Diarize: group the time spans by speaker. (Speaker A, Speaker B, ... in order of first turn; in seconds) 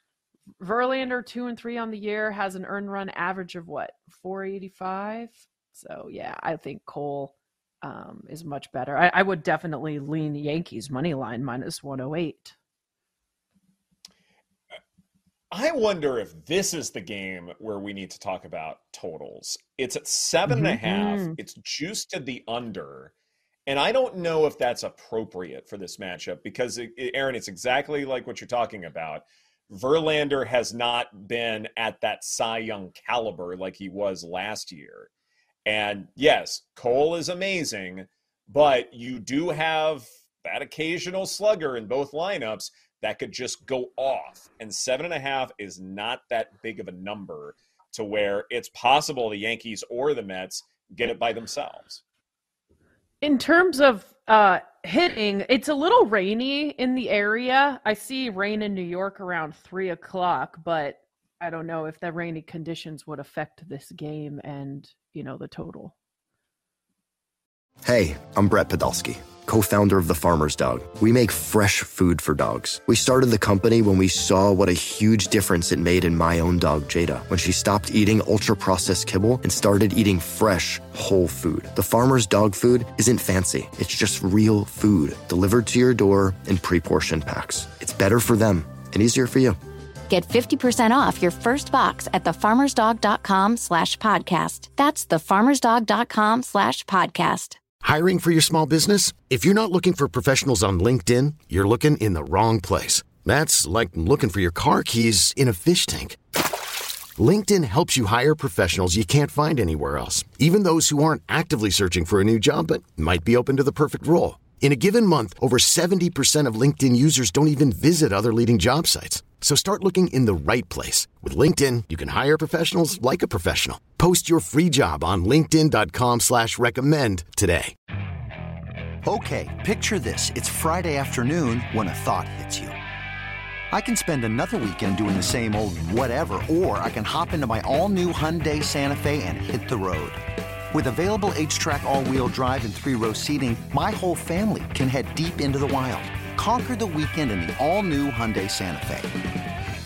Speaker A: 0.6-12.5, 20.5-21.4, 53.2-66.0
Speaker B: 15.5-23.1, 23.7-35.1, 35.7-52.0
Speaker C: 67.8-89.6
Speaker D: 90.1-97.6
Speaker E: 97.8-106.2, 107.2-127.7
Speaker F: 129.1-132.8, 133.7-140.2, 140.7-149.1